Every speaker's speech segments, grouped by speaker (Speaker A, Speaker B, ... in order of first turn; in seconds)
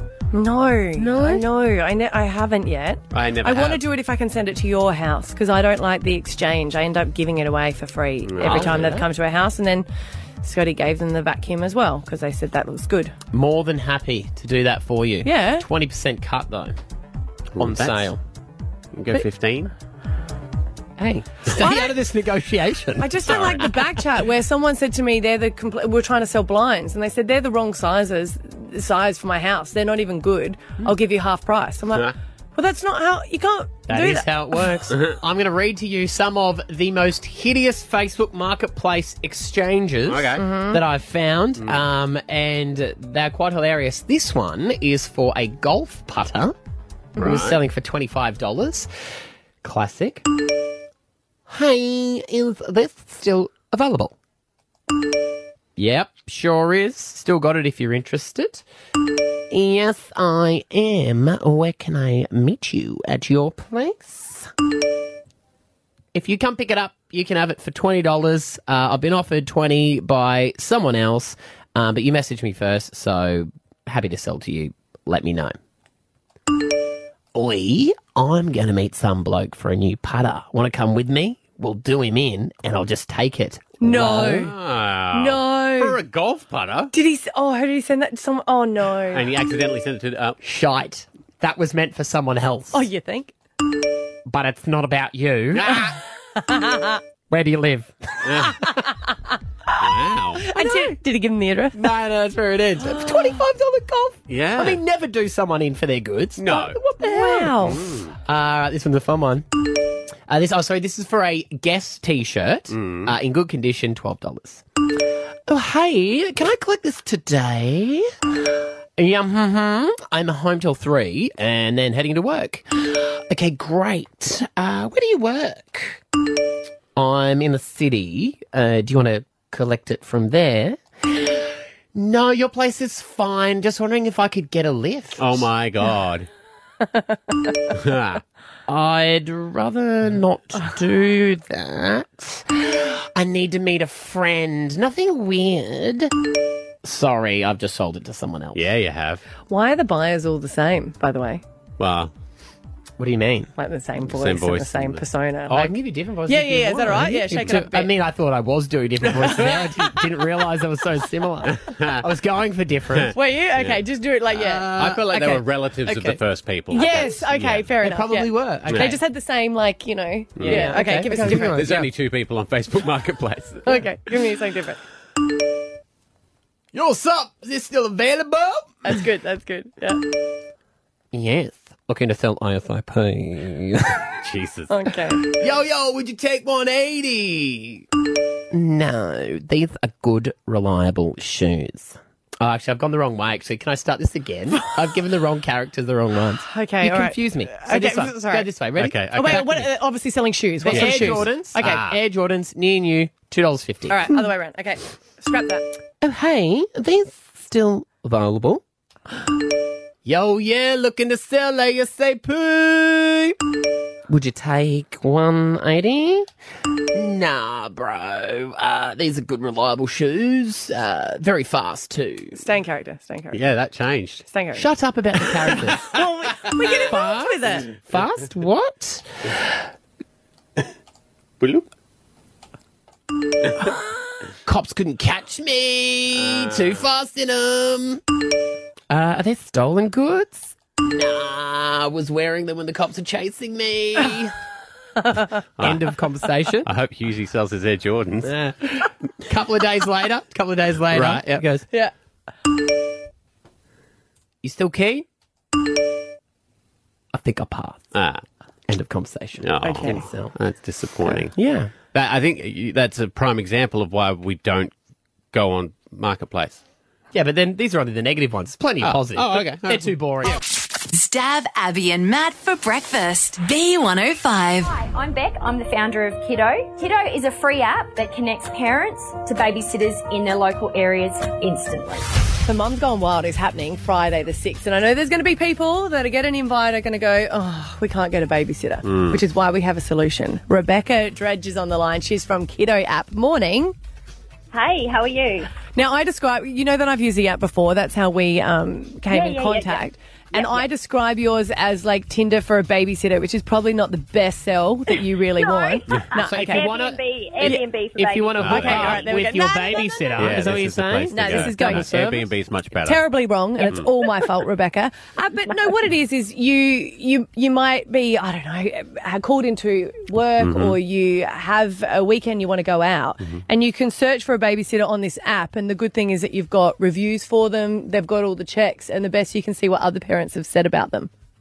Speaker A: 0.3-9.9, 10.4-13.1, 15.2-15.7, 21.5-21.9, 23.0-34.8, 40.4-40.8, 83.8-84.5, 85.1-86.0, 86.9-89.3, 92.7-93.3, 96.5-97.0, 100.4-101.8, 102.8-103.4, 107.0-107.9, 149.5-151.4, 153.6-157.9, 163.1-165.4, 166.7-171.7, 173.6-174.8, 178.8-180.0, 184.7-185.2, 196.5-198.5, 199.1-201.8, 203.9-205.6, 222.3-223.4, 224.2-224.6, 225.8-227.7, 259.6-260.1, 282.4-293.7, 295.7-306.7, 307.4-307.7, 308.4-310.4, 311.1-312.2, 312.8-331.1
Speaker B: 1.0-1.4, 8.4-9.1, 13.3-16.8, 17.6-18.2, 21.0-23.7, 33.9-46.5, 47.2-48.9, 49.6-50.2, 51.5-54.1, 55.8-58.6, 59.5-64.5, 66.1-75.6, 77.3-84.5, 90.4-92.8, 94.3-95.8, 97.3-98.6, 100.5-100.9, 101.7-107.7, 108.2-109.5, 110.3-114.6, 115.5-118.1, 119.0-126.0, 127.0-135.5, 138.7-146.1, 146.8-148.7, 153.0-153.5, 155.5-163.1, 165.1-166.2, 166.8-167.1, 167.8-169.0, 170.4-171.9, 176.7-178.8, 181.1-184.1, 185.3-187.8, 188.5-199.5, 200.6-204.2, 206.0-208.6, 210.0-213.3, 214.1-216.3, 216.9-222.4, 224.5-225.9, 226.8-229.6, 234.4-238.0, 238.9-244.3, 245.6-246.7, 248.2-251.6, 254.4-255.1, 257.1-257.9, 258.7-260.3, 261.3-261.7, 267.1-270.4, 306.1-312.2
Speaker C: 3.1-3.8, 8.2-9.0, 17.5-18.1, 18.9-19.7, 23.3-23.6, 40.1-40.4, 47.2-47.6, 84.3-86.9, 89.1-90.4, 95.6-95.9, 98.2-98.6, 99.8-100.5, 104.3-104.8, 106.4-106.8, 107.7-108.1, 112.7-113.1, 135.2-136.3, 137.7-138.2, 148.5-149.2, 151.8-152.1, 154.0-155.0, 159.2-159.4, 161.5-162.1, 162.9-163.8, 164.3-167.7, 168.7-169.0, 170.4-173.8, 184.2-184.7, 198.8-199.7, 200.7-202.0, 223.3-224.2, 231.4-231.7, 236.2-236.8, 245.6-245.9, 246.6-248.3, 250.9-251.3, 257.9-258.2, 259.4-261.3, 261.9-264.7, 265.3-266.6, 268.8-269.9, 288.8-289.2, 308.4-309.1, 310.1-313.1, 320.4-320.8
Speaker D: 270.9-274.7
Speaker E: 274.6-282.1
Speaker F: 294.5-295.5, 299.1-300.7, 305.3-309.0